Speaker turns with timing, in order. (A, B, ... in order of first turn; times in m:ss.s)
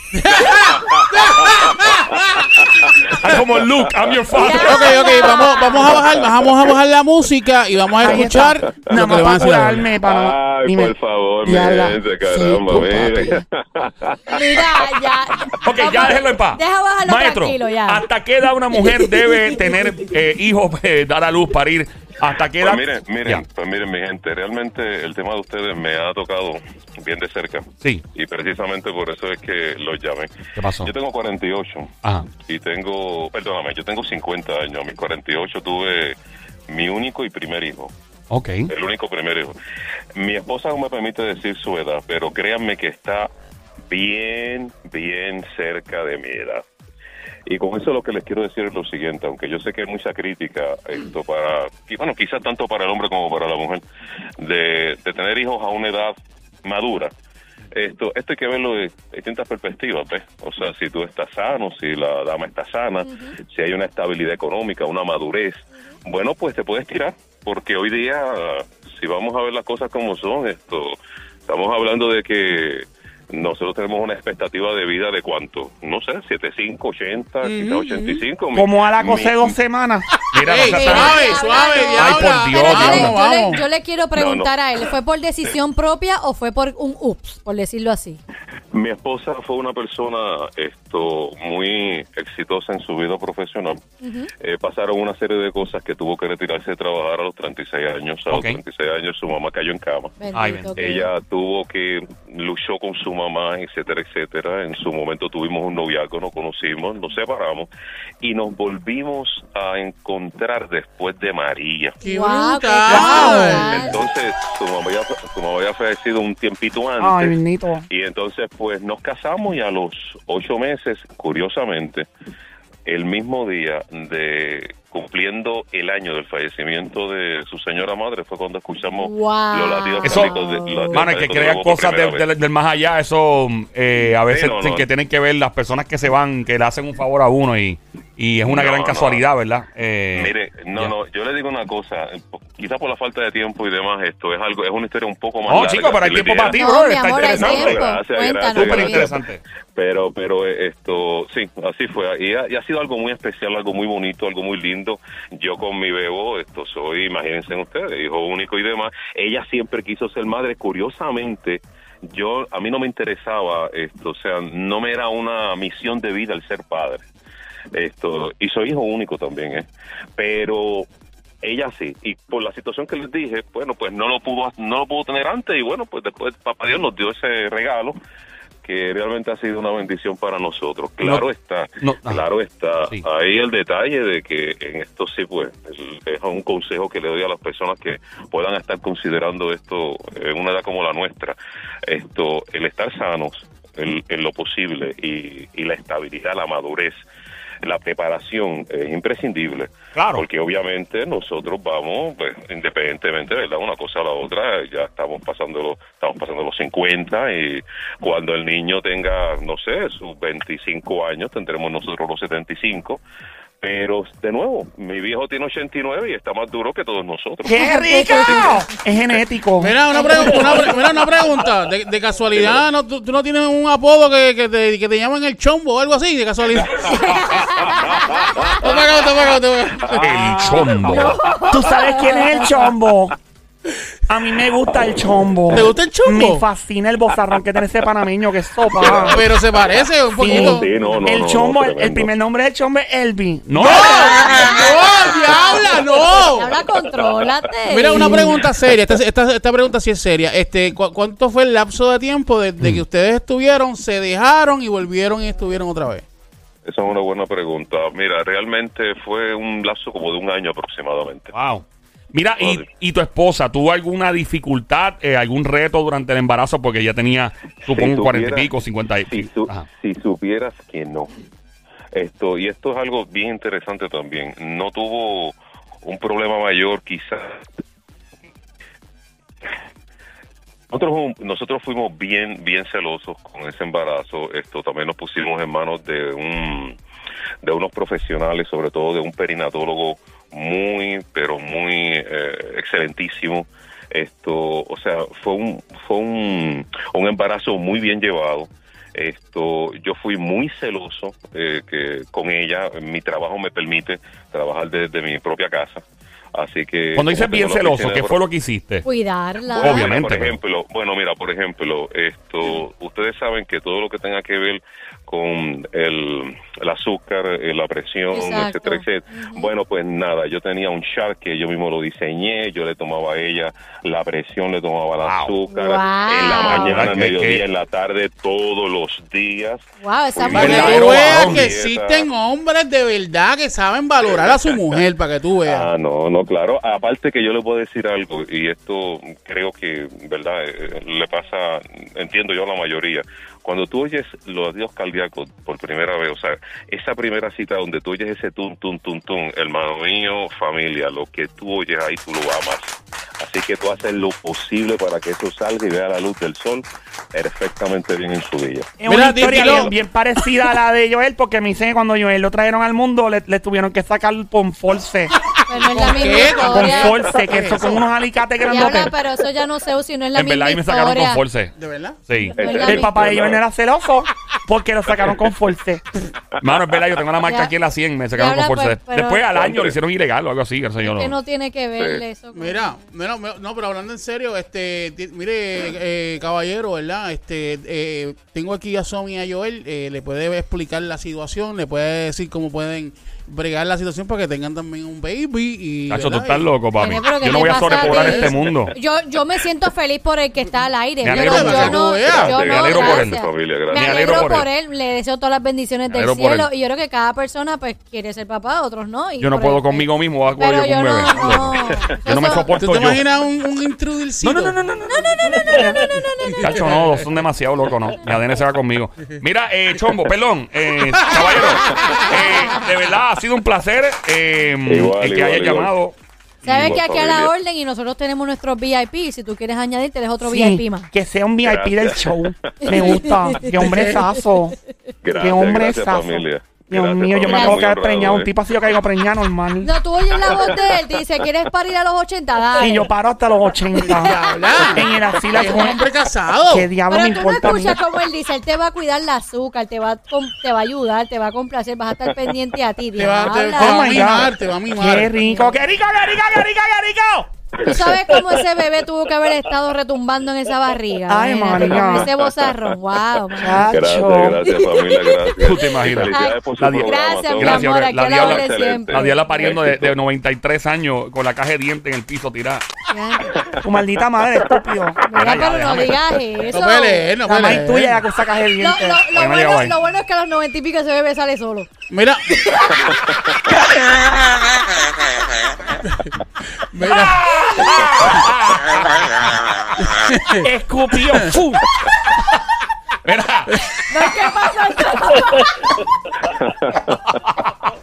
0:00.1-0:02.0 A
0:00.7-0:02.0 B
0:02.6-0:03.2 B
0:03.1-0:05.0 C
0:04.3-0:06.0 D
0:04.5-0:09.8 A
0:08.0-0:13.4 E
0:08.6-0:14.9 B
0:14.3-0:18.0 D
0:15.6-0:23.4 C
0:18.7-0:19.5 D
0:22.6-0:36.2 B
0:30.6-0:30.9 C
0:32.0-0:32.3 C
0:36.7-0:37.9 B
0:38.3-0:38.7 C
0:38.7-0:39.5 B
0:40.2-0:43.3 B
0:43.9-0:46.6 B
0:47.4-0:53.8 B
0:54.4-0:57.1 B
0:57.7-1:19.5 B
1:03.0-1:03.4 D
1:17.4-1:18.2 A
1:18.5-1:20.1 E
1:20.3-1:23.2 C
1:20.3-1:23.6 A
1:20.6-1:28.2 D
1:24.1-1:24.5 B
1:28.7-1:33.8 B
1:34.0-1:34.3 D
1:34.4-1:40.2 B
1:38.3-1:38.6 C
1:40.2-1:41.1 D
1:40.3-1:40.7 C
1:40.8-1:47.7 B
1:48.2-1:52.0 B
1:52.0-1:54.0 D
1:52.0-1:53.9 A
1:52.9-1:57.3 B
1:53.0-1:53.6 E
1:57.0-1:57.8 E
1:57.9-2:02.1 B
2:02.8-2:12.2 B
2:08.9-2:11.1 D
2:10.0-2:10.4 C
2:10.9-2:20.9 C
2:14.2-2:14.8 B
2:18.4-2:19.2 B
2:20.1-2:26.6 B
2:25.5-2:27.8 C
2:26.5-2:29.1 D
2:27.2-2:47.0 B
2:28.5-2:29.4 C
2:47.7-2:50.9 B
2:51.4-2:58.0 B
2:58.6-3:17.0 B
3:01.8-3:02.2 C
3:17.6-3:33.0 B
3:19.9-3:20.2 C
3:33.6-3:38.5 B
3:37.4-3:39.8 E
3:37.5-3:38.6 D
3:39.6-3:47.4 A
3:39.9-3:40.7 D
3:40.2-3:40.8 B
3:42.3-3:42.6 B
3:46.9-3:48.5 D
3:47.9-3:48.7 B
3:48.5-3:50.9 A
3:49.8-3:50.6 B
3:50.0-3:51.2 C
3:50.9-3:52.5 D
3:51.5-3:53.2 E
3:54.1-3:59.2 E
3:55.5-3:56.4 A
3:58.8-4:02.1 B
3:58.8-4:00.9 A
4:00.2-4:03.8 E
4:03.5-4:04.0 C
4:03.6-4:06.6 A
4:03.8-4:08.4 D
4:07.7-4:16.0 A
4:16.6-4:21.3 B
4:21.3-4:29.6 C
4:22.4-4:22.6 B
4:27.6-4:28.5 B
4:29.0-4:31.2 B
4:31.9-4:37.4 B
4:40.7-4:46.8 B
4:47.4-5:05.8 B
5:06.3-5:08.2 B
5:06.9-5:08.8 C
5:08.8-5:09.9 D
5:09.4-5:32.1 B
5:09.6-5:10.3 C
5:18.1-5:19.5 D
5:25.0-5:25.4 C
5:25.5-5:26.8 D
5:26.2-5:27.4 C
5:29.8-5:31.1 D
5:30.3-5:31.5 C
5:30.3-5:35.7 A
5:35.4-5:58.7 B
5:58.8-6:05.1 E
5:58.8-5:59.7 A
5:59.3-5:59.6 B
6:05.5-6:07.0 D
6:05.5-6:07.8 A
6:06.4-6:08.9 E
6:08.4-6:11.2 D
6:10.2-6:11.5 C
6:11.6-6:12.0 A
6:12.1-6:12.4 C
6:12.3-6:12.9 D
6:12.4-6:13.4 B
6:12.6-6:15.8 E
6:16.4-6:21.2 C
6:17.2-6:17.5 D
6:18.1-6:19.2 D
6:19.3-6:19.8 B
6:20.8-6:22.8 D
6:21.8-6:22.0 B
6:22.3-6:36.5 A
6:35.9-6:38.7 C
6:36.8-6:52.5 D
6:37.4-6:38.4 A
6:41.0-6:41.8 C
6:41.0-6:42.8 A
6:42.0-6:44.3 B
6:42.5-6:43.2 C
6:43.7-6:44.5 C
6:45.9-6:46.5 C
6:49.2-6:53.0 C
6:52.5-6:54.6 A
6:54.2-6:55.8 C
6:54.9-6:56.6 D
6:55.4-6:55.8 E
6:55.8-6:57.0 A
6:56.4-7:06.8 C
7:01.0-7:02.1 A
7:02.1-7:02.6 D
7:04.6-7:05.7 B
7:06.4-7:07.3 B
7:06.4-7:10.9 D
7:10.2-7:14.6 E
7:11.4-7:12.9 B
7:12.6-7:14.0 D
7:13.5-7:14.0 A
7:15.0-7:18.3 B
7:15.1-7:19.7 E
7:17.2-7:17.6 D
7:19.6-7:22.9 D
7:20.1-7:21.2 B
7:22.6-7:25.8 E
7:23.8-7:24.3 D
7:24.0-7:26.7 A
7:25.2-7:25.7 D
7:26.5-7:27.8 E
7:26.9-7:34.2 D
7:33.0-7:35.1 A
7:33.6-7:37.3 E
7:35.2-7:35.5 D
7:37.6-7:43.8 D
7:37.6-7:38.5 B
7:41.1-7:42.1 E
7:41.6-7:42.8 B
7:43.4-7:44.4 E
7:43.7-7:50.0 B
7:44.4-7:49.6 D
7:45.4-7:52.6 C
7:52.9-7:53.4 D
7:53.3-7:53.8 B
7:53.6-7:55.0 E
7:55.0-7:57.1 D
7:55.1-7:56.0 C
7:56.5-7:58.0 A
7:57.2-7:59.0 E
7:58.6-8:01.7 D
7:59.1-7:59.7 C
8:01.9-8:02.4 A
8:02.5-8:02.9 D
8:06.7-8:07.2 A
8:06.8-8:09.3 C
8:09.8-8:10.5 A
8:10.4-8:11.6 E
8:13.0-8:14.2 C
8:13.9-8:15.5 D
8:16.4-8:17.0 B